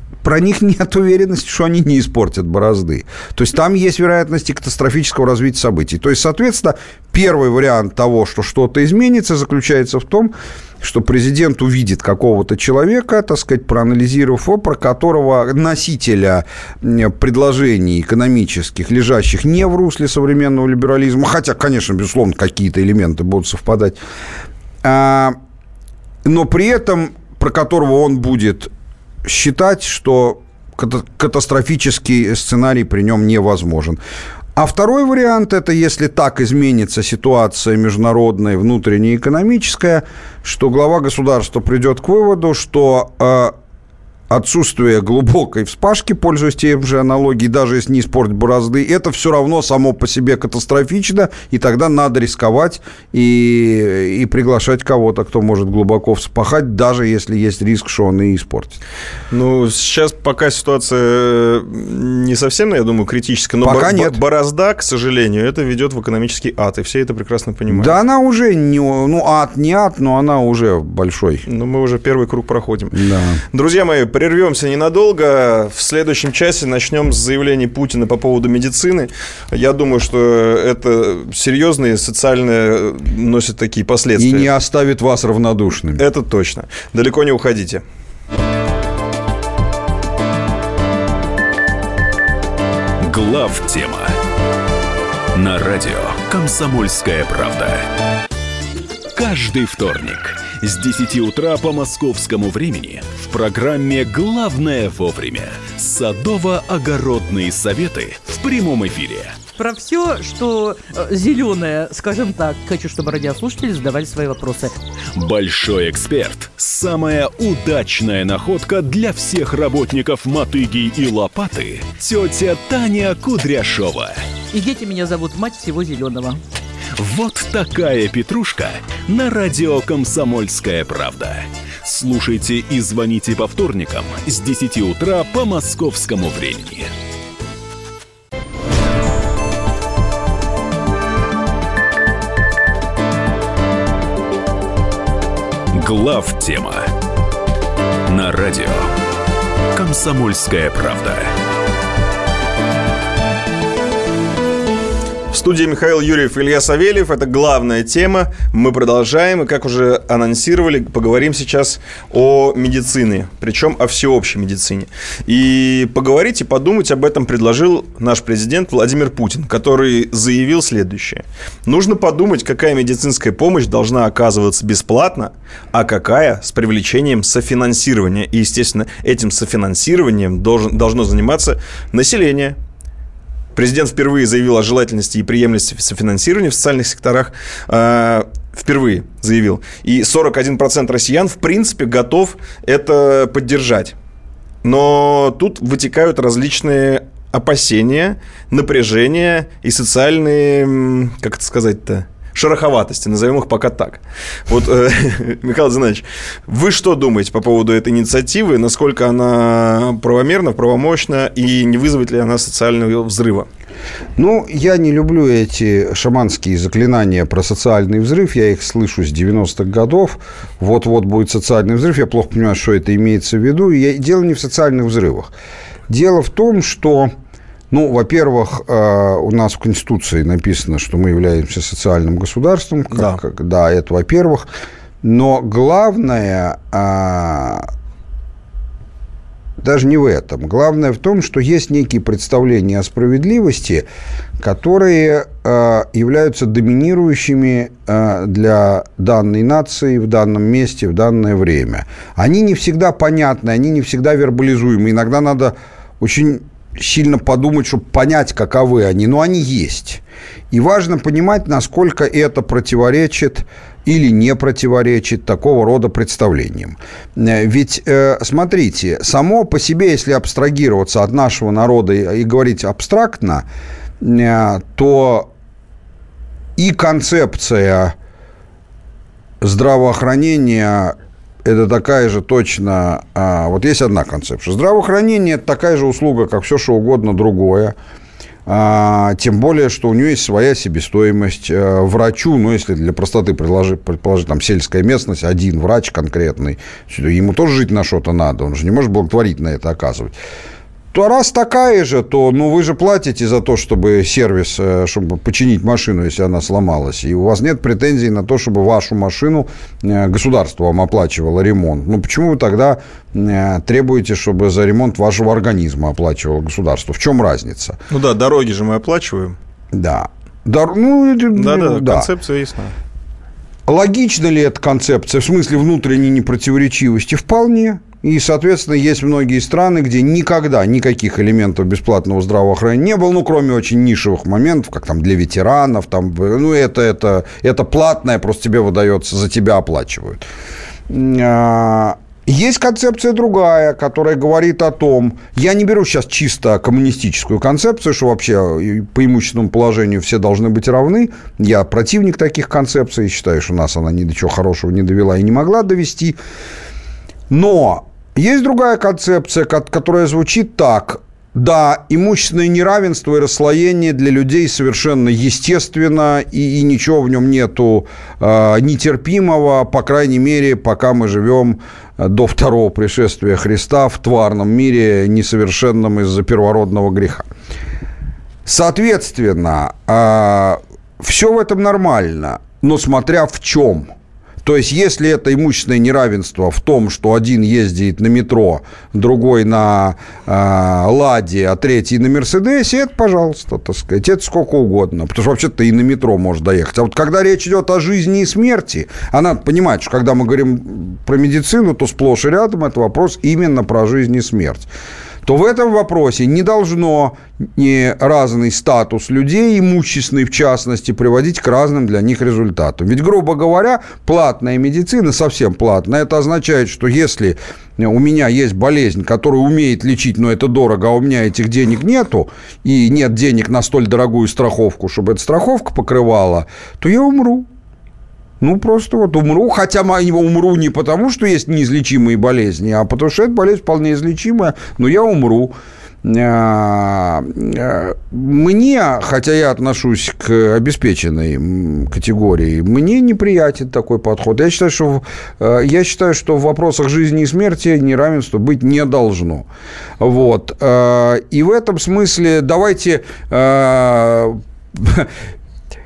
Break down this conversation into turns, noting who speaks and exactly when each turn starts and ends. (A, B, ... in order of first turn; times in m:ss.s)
0:00.2-0:24.0 A
0:24.8-0:25.4 A
0:26.2-0:28.7 A
0:29.2-0:34.0 A
0:34.6-0:43.5 A
0:44.3-0:58.8 A
0:59.3-1:07.9 B
1:03.6-1:04.2 A
1:07.7-1:11.4 A
1:11.4-1:12.9 B
1:12.9-1:13.4 A
1:13.5-1:24.5 B
1:24.2-1:26.0 A
1:26.0-1:27.8 B
1:33.0-1:34.2 C
1:35.3-1:37.9 C
1:39.1-1:49.4 C
1:49.6-1:54.7 D
1:55.1-2:04.2 C
2:04.5-2:06.4 D
2:07.0-2:16.9 C
2:25.7-2:26.9 C
2:28.1-2:28.9 C
2:29.7-2:31.3 C
2:35.3-3:02.6 B
3:03.5-3:13.9 B
3:14.6-3:33.5 B
3:34.2-3:45.3 A
3:45.9-3:47.1 A
3:47.7-3:54.5 A
3:52.9-3:53.2 B
3:55.0-3:57.7 A
3:59.6-4:03.9 A
4:04.4-4:33.4 A
4:34.0-4:35.3 A
4:36.6-4:37.9 A
4:39.4-4:47.8 A
4:48.4-5:00.1 A
5:00.9-5:17.8 A
5:17.9-5:19.4 B
5:19.7-5:22.1 A
5:21.3-5:22.7 B
5:23.6-5:40.2 A
5:40.9-5:56.2 A
5:57.3-6:17.3 A
6:18.4-6:23.9 A
6:24.4-6:44.7 A
6:45.2-7:07.5 A
7:08.4-7:29.5 A
7:30.0-7:35.1 A